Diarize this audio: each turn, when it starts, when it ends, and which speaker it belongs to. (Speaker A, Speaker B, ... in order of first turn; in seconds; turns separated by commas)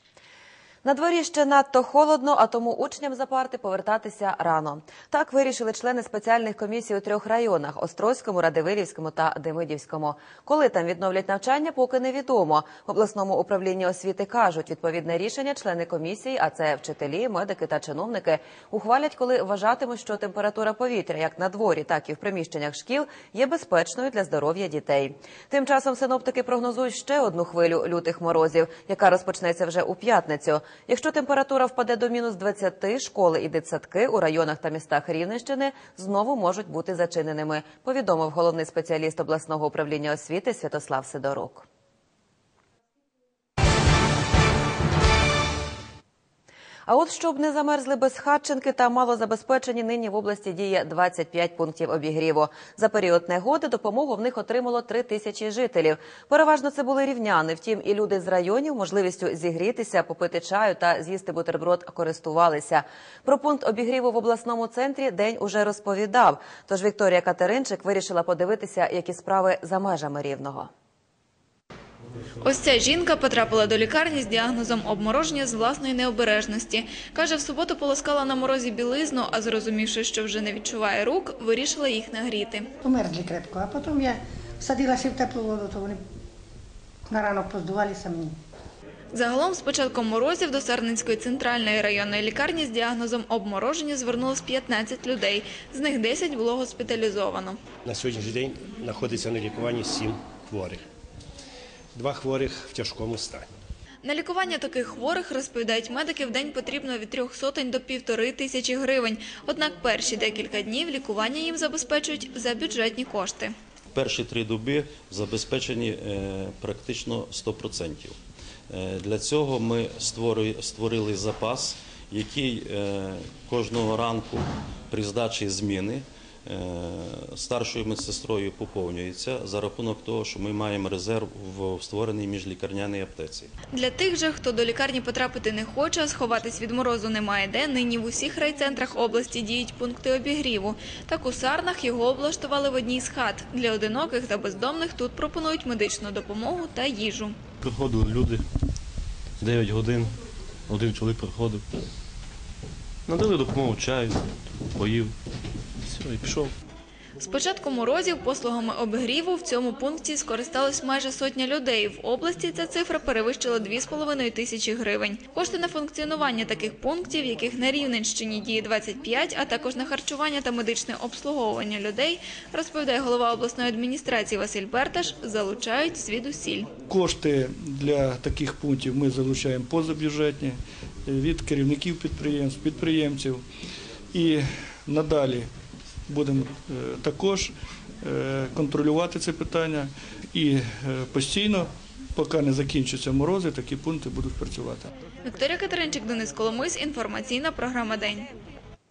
Speaker A: 0.8-41.6, Speaker A: 46.9-70.7, Speaker B: 72.4-82.7, Speaker C: 82.8-86.0, Speaker C: 87.1-88.3, Speaker B: 89.1-97.6, Speaker D: 97.8-100.8, Speaker D: 101.9-103.5, Speaker B: 104.0-113.5, Speaker E: 113.9-118.2, Speaker E: 118.7-133.5, Speaker B: 133.7-147.3, Speaker F: 147.6-148.4, Speaker F: 149.4-150.1, Speaker F: 150.7-151.6, Speaker F: 153.1-155.1, Speaker F: 155.9-156.5, Speaker B: 157.2-176.7, Speaker G: 176.9-183.4, Speaker G: 184.1-185.5, Speaker G: 186.1-187.5, Speaker G: 188.0-194.9, Speaker B: 195.2-198.3